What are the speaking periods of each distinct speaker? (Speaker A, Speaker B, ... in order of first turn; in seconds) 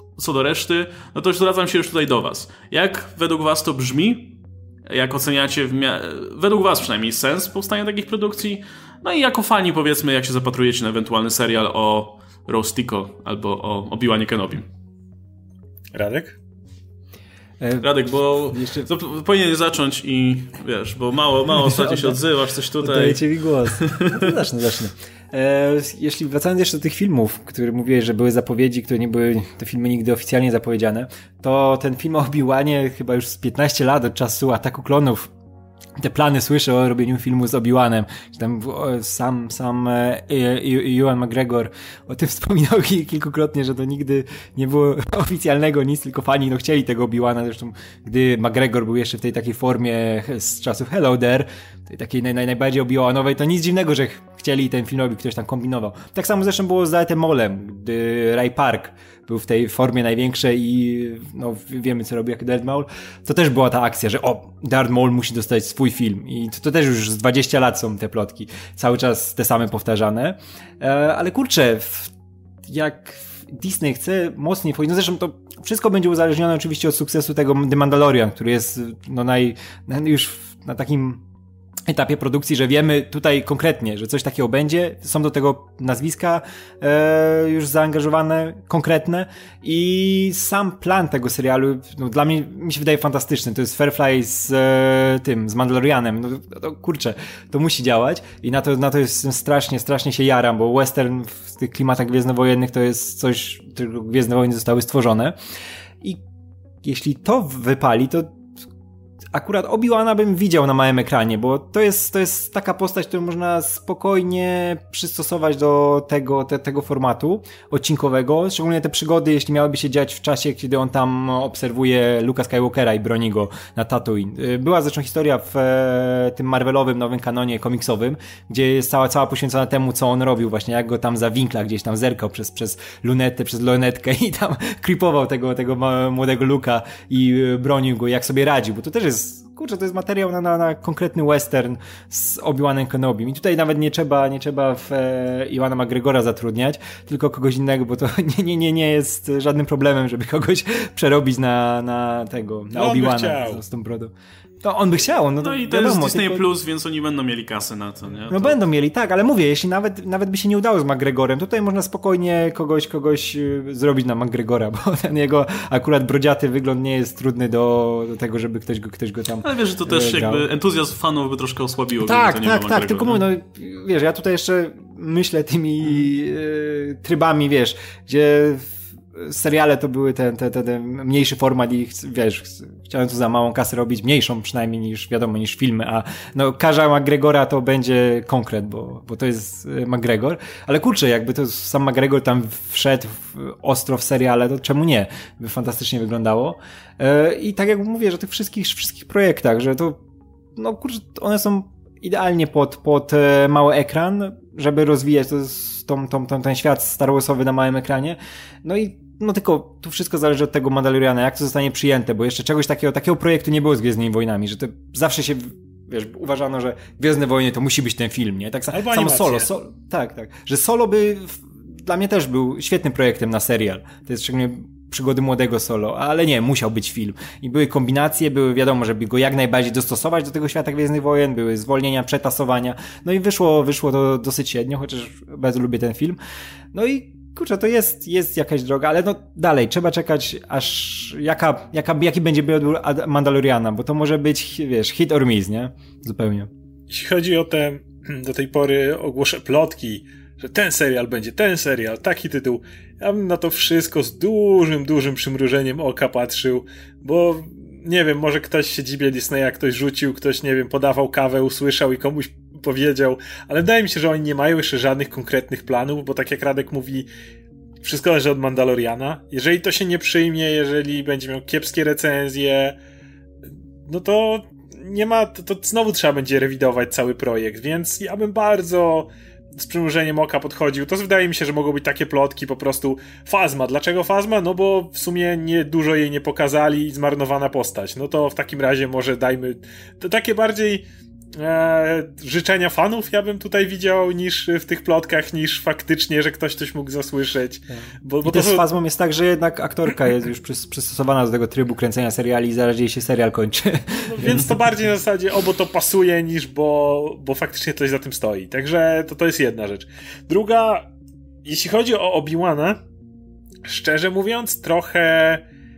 Speaker A: 0.1-14.7, 17.8-24.3, 155.4-158.6, 169.4-173.3
Speaker B: 15.9-16.4, 152.7-153.6, 218.7-219.5, 246.9-267.1, 267.8-272.8, 273.9-298.6, 304.0-310.9, 311.4-312.8, 313.6-315.4
Speaker C: 17.6-18.9, 21.6-22.2, 22.8-35.3, 36.0-72.1, 72.7-81.2, 81.9-105.3, 106.8-108.4, 109.3-156.5, 158.3-170.5, 172.0-200.0, 200.6-236.2, 236.7-246.5, 298.2-304.6